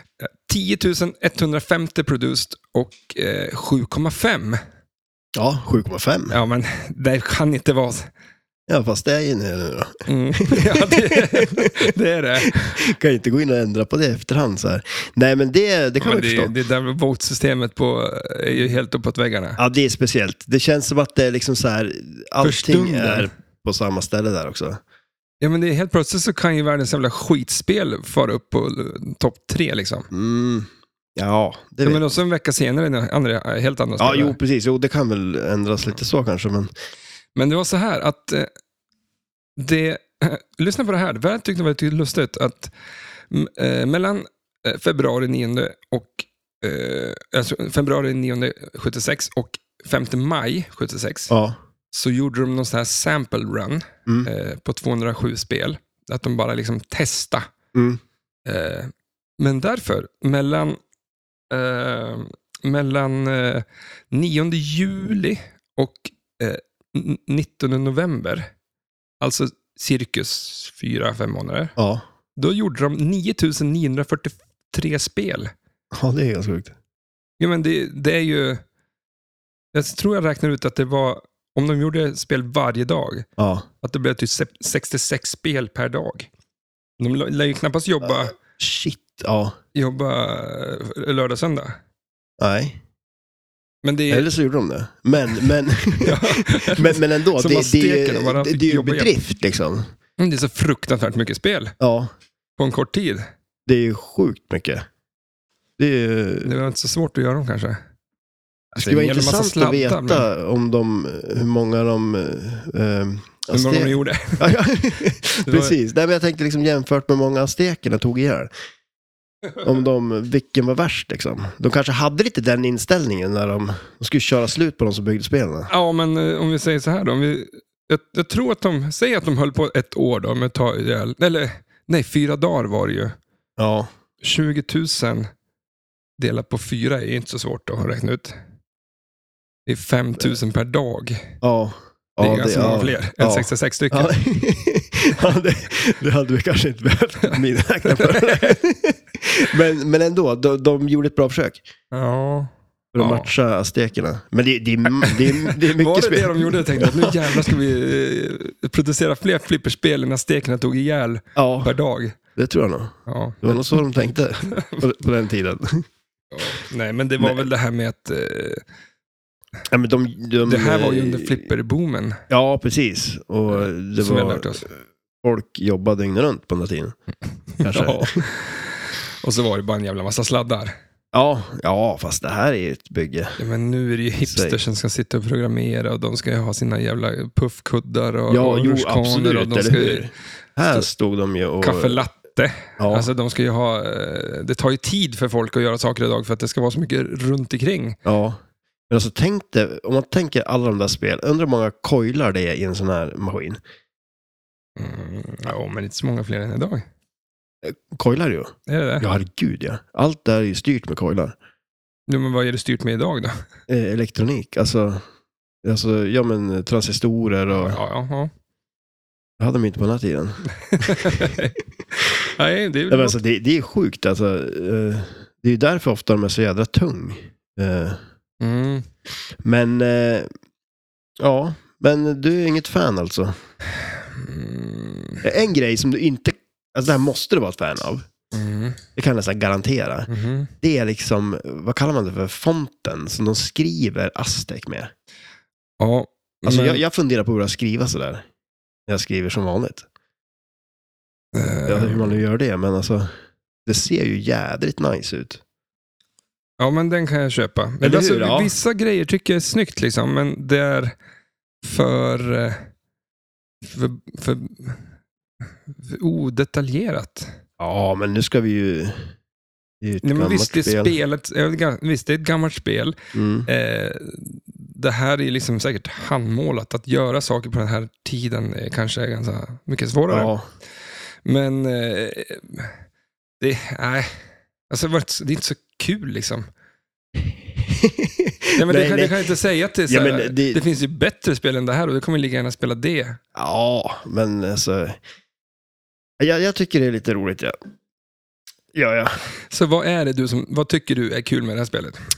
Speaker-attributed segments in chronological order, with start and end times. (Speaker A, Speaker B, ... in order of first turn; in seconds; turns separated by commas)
Speaker A: 0.2-4.6, Speaker B: 5.3-6.3, Speaker A: 6.3-8.1, Speaker B: 8.7-16.5, Speaker A: 10.1-12.8, Speaker A: 16.0-19.6, Speaker B: 19.6-24.8, Speaker A: 22.4-23.3, Speaker A: 25.4-30.1, Speaker B: 30.1-32.0, Speaker A: 31.8-34.4, Speaker B: 34.0-36.7, Speaker A: 37.4-38.5, Speaker A: 39.6-42.7, Speaker A: 43.3-51.3, Speaker B: 51.3-51.6, Speaker A: 51.9-57.5, Speaker B: 57.7-58.0, Speaker A: 58.5-60.8, Speaker A: 61.5-68.5, Speaker A: 69.2-71.8, Speaker B: 71.8-72.0, Speaker A: 72.4-75.5, Speaker B: 75.9-76.8, Speaker A: 77.4-78.6, Speaker A: 79.7-83.3, Speaker B: 83.4-83.7, Speaker A: 83.8-86.3, Speaker A: 87.0-88.3, Speaker B: 88.4-89.5, Speaker A: 89.7-91.8, Speaker B: 92.4-92.8, Speaker A: 93.8-94.3, Speaker B: 94.1-99.8, Speaker A: 96.0-99.1, Speaker A: 100.2-101.7, Speaker B: 101.8-102.1, Speaker A: 102.6-103.3, Speaker B: 103.7-104.8, Speaker B: 105.8-106.5, Speaker A: 106.4-107.8, Speaker B: 108.7-118.5, Speaker A: 108.8-110.3, Speaker A: 113.5-114.5, Speaker A: 115.5-115.8, Speaker B: 119.6-125.7, Speaker A: 125.7-133.2, Speaker B: 133.6-133.9, Speaker A: 134.2-135.3, Speaker A: 136.2-138.3, Speaker A: 139.7-141.3, Speaker B: 141.4-151.7, Speaker A: 142.2-144.1, Speaker A: 147.9-148.5, Speaker A: 151.9-153.3, Speaker B: 152.9-157.6, Speaker A: 155.0-162.2, Speaker B: 161.4-161.7, Speaker B: 162.4-165.8, Speaker A: 163.1-163.8, Speaker A: 164.4-164.8, Speaker A: 166.3-168.6, Speaker B: 167.2-167.5, Speaker B: 169.7-171.4, Speaker A: 170.4-172.2, Speaker B: 172.3-177.0, Speaker A: 173.5-174.7, Speaker A: 177.6-180.8, Speaker B: 177.6-178.2, Speaker B: 181.1-183.4, Speaker A: 183.4-190.1, Speaker B: 184.2-184.6, Speaker B: 188.3-192.0, Speaker A: 191.6-198.0, Speaker B: 192.8-193.1, Speaker B: 198.1-198.4, Speaker B: 198.9-203.6, Speaker A: 204.8-206.9, Speaker B: 207.6-211.4, Speaker A: 208.7-209.1, Speaker A: 212.1-213.4, Speaker B: 213.7-215.0, Speaker B: 215.6-217.8, Speaker A: 217.6-218.3, Speaker B: 219.4-221.3, Speaker A: 220.7-221.6, Speaker A: 222.2-223.2, Speaker B: 222.9-228.0, Speaker A: 228.4-228.9, Speaker B: 229.4-230.3, Speaker B: 231.2-233.3, Speaker A: 234.1-235.2, Speaker B: 235.2-238.1, Speaker A: 238.3-238.8, Speaker B: 239.0-240.1, Speaker A: 240.1-240.5, Speaker B: 240.6-244.9, Speaker A: 245.8-246.8, Speaker B: 246.4-248.2, Speaker B: 248.9-249.8, Speaker A: 251.3-252.2, Speaker B: 251.7-253.1, Speaker B: 253.7-255.4, Speaker A: 256.6-260.9, Speaker B: 257.8-258.5, Speaker A: 261.6-262.6, Speaker A: 263.6-264.8, Speaker A: 265.7-267.4, Speaker B: 267.6-269.1, Speaker B: 269.8-270.9, Speaker A: 270.0-280.3, Speaker B: 273.1-273.5, Speaker B: 280.1-280.4, Speaker A: 281.2-282.8, Speaker A: 283.4-284.1, Speaker A: 284.7-286.5, Speaker B: 287.6-289.2, Speaker A: 288.6-293.2, Speaker B: 289.9-290.6, Speaker B: 293.4-295.0, Speaker B: 296.2-297.5, Speaker B: 298.7-299.1, Speaker A: 299.5-302.0